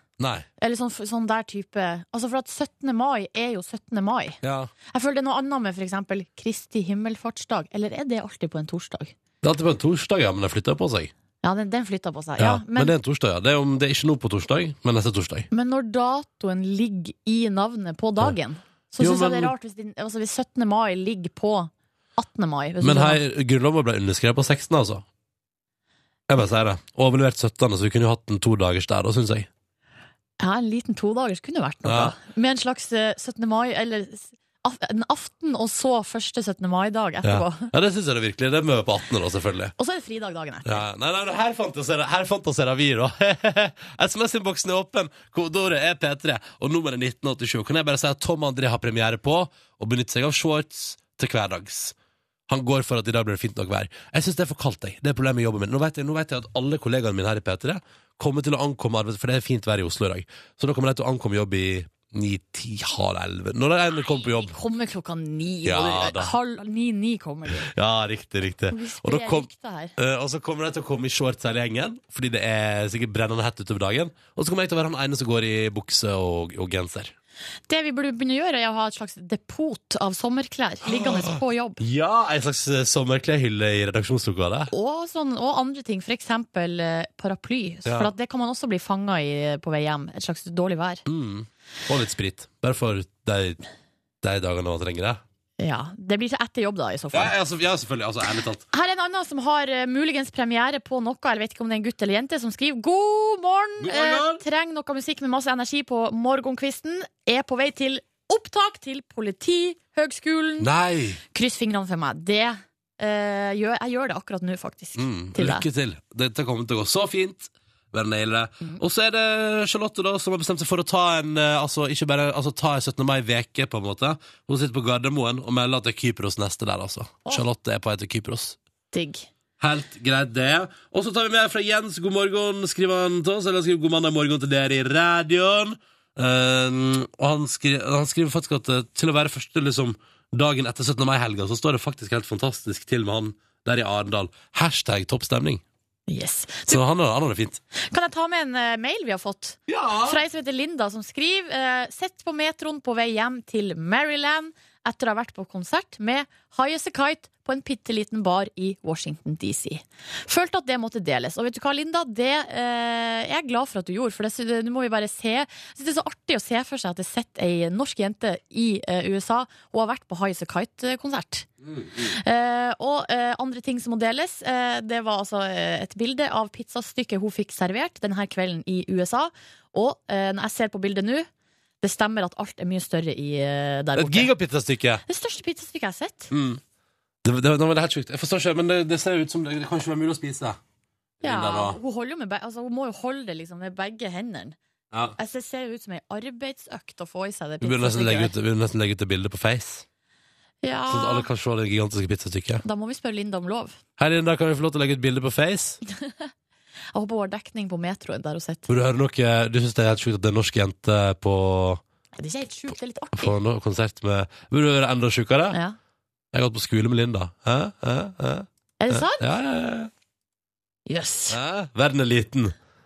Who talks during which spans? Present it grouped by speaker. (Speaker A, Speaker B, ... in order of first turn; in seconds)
Speaker A: 0.2-0.5, 4.4-4.7, 9.4-11.1, 12.4-15.5, 19.0-19.5, 22.8-25.1, 26.3-29.5, 31.9-32.1, 37.2-39.7, 40.6-52.0, 52.5-64.5, 65.7-66.3, 67.5-77.1, 80.8-84.7, 87.8-88.1, 91.1-93.6, 94.2-95.2, 97.1-98.7, 103.8-104.4, 110.6-111.2, 115.0-128.6, 129.6-145.6, 146.7-147.6, 149.7-150.2, 184.0-185.0, 186.3-186.6, 187.2-190.6, 191.2-191.8, 197.6-199.8, 200.9-202.6, 204.0-205.8, 208.7-211.8, 213.2-215.6, 216.3-219.9, 221.3-222.6
Speaker B: 0.6-4.4, 4.9-9.1, 11.4-12.9, 15.5-23.2, 30.4-37.7, 39.8-40.8, 64.1-67.7, 68.7-70.0, 77.7-81.8, 84.7-91.0, 95.6-97.3, 98.7-110.7, 111.3-115.7, 128.9-129.3, 146.1-146.8, 147.8-181.3, 181.8-184.3, 185.1-186.3, 191.2-194.6, 195.2-198.3, 200.6-201.3, 202.6-203.8, 206.9-208.7, 212.2-213.4, 218.8-219.2, 220.9-221.4